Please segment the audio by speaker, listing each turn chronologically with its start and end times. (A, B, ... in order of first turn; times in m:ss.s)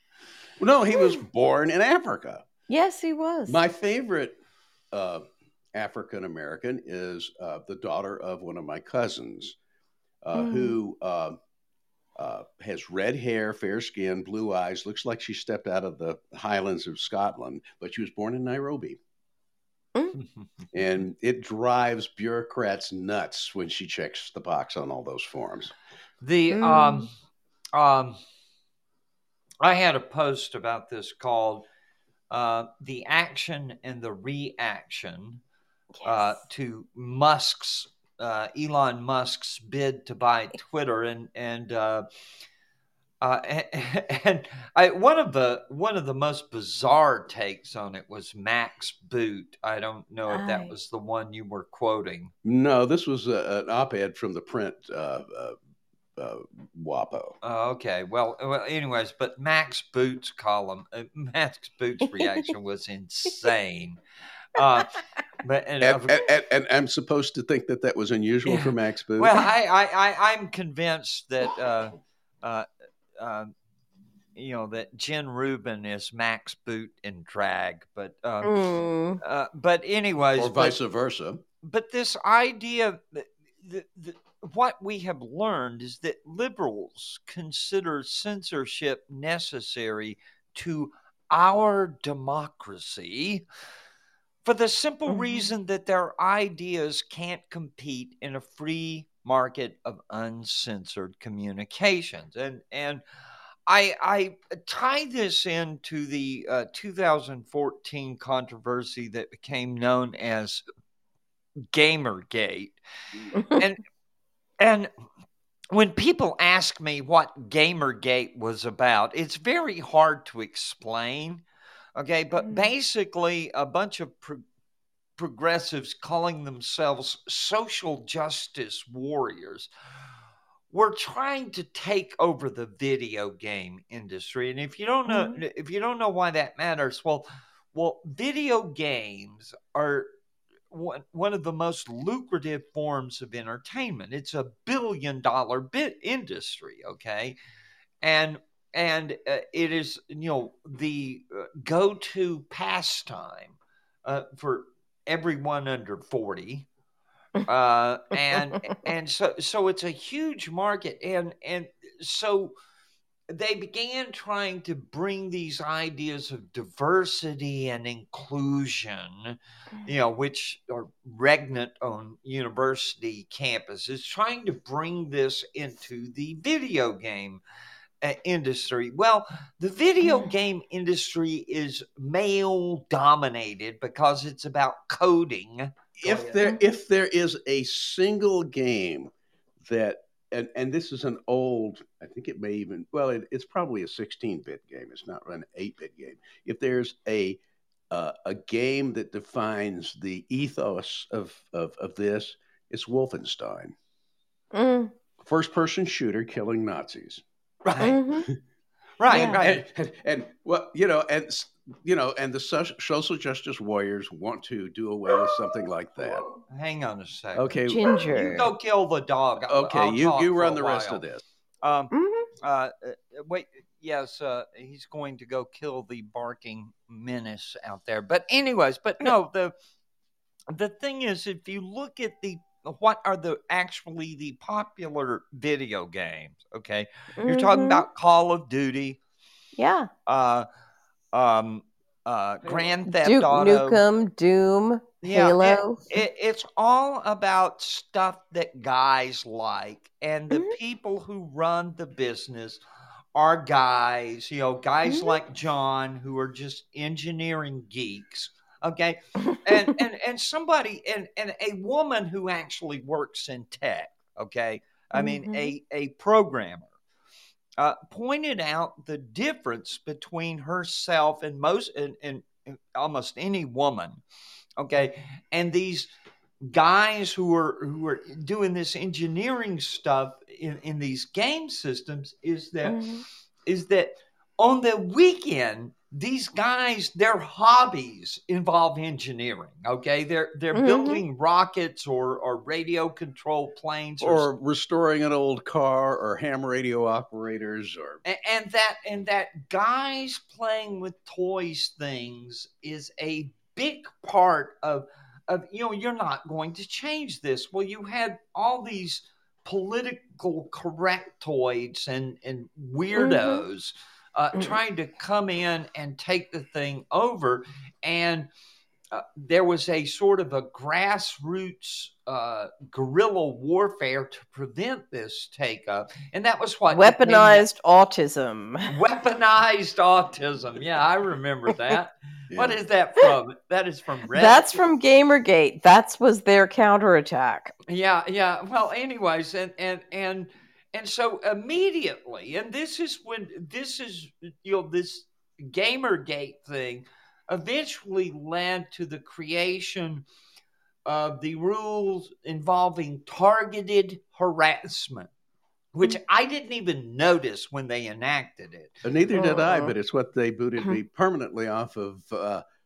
0:00.6-0:02.4 A
0:02.7-0:03.6 B
0:03.5-0:04.4 A
0:04.9-0:09.6 A
0:10.2-0:11.4 A
0:10.3-0:10.8 B
0:12.2-0:19.0 A
0:20.7-0:25.7 A
0:26.2-0:27.1 C
0:26.5-0:27.0 B
0:27.7-0:28.2 C
0:29.6-0:31.6 C
0:32.3-0:35.4 C
0:36.0-0:36.4 B
0:36.0-0:42.0 C
0:43.2-0:52.3 C
0:50.3-0:50.7 B
0:52.4-0:55.6 A
0:56.2-0:57.4 A
0:57.4-1:04.0 C
1:04.5-1:06.2 C
1:05.8-1:09.3 A
1:08.4-1:13.5 C
1:14.4-1:18.6 C
1:18.4-1:19.2 B
1:19.2-1:20.8 C
1:20.4-1:21.4 A
1:21.6-1:33.4 C
1:34.4-1:43.0 C
1:35.1-1:35.5 B
1:43.7-1:50.6 C
1:51.7-1:52.8 C
1:53.4-1:53.8 C
1:54.6-1:54.9 C
1:55.7-2:01.4 C
2:02.0-2:04.4 C
2:05.2-2:09.7 C
2:10.7-2:20.1 C
2:15.1-2:15.4 B
2:20.7-2:27.4 C
2:28.0-2:36.7 C
2:37.4-2:42.5 C
2:43.3-2:57.4 C
2:58.0-3:06.4 C
3:06.0-3:09.1 A
3:09.6-3:23.7 A
3:24.5-3:24.9 B
3:25.2-3:27.2 A
3:27.6-3:28.0 C
3:27.8-3:28.3 B
3:29.0-3:29.6 C
3:29.1-3:36.2 A
3:29.1-3:29.4 B
3:36.5-3:41.0 C
3:37.3-3:37.8 A
3:37.7-3:38.5 B
3:39.4-3:41.2 A
3:41.6-3:49.5 C
3:41.9-3:42.3 B
3:50.5-3:59.0 C
3:57.2-3:57.8 B
3:59.6-3:59.9 B
4:00.0-4:00.4 C
4:01.1-4:03.8 C
4:02.8-4:05.8 B
4:05.0-4:12.6 C
4:13.1-4:26.7 C
4:14.8-4:15.2 B
4:24.9-4:25.5 B
4:27.6-4:34.0 C
4:34.6-4:35.9 C
4:36.4-4:42.8 C
4:42.6-4:43.0 B
4:43.4-4:54.3 C
4:50.5-4:51.0 B
4:54.0-4:58.0 A
4:58.0-5:18.3 C
5:13.0-5:13.4 B
5:18.9-5:27.4 C
5:26.7-5:28.7 B
5:28.7-5:34.6 C
5:32.3-5:32.6 A
5:34.1-5:37.5 B
5:37.7-5:50.0 C
5:50.8-5:55.1 C
5:55.7-5:58.8 C
5:58.8-6:02.4 A
5:59.1-5:59.7 B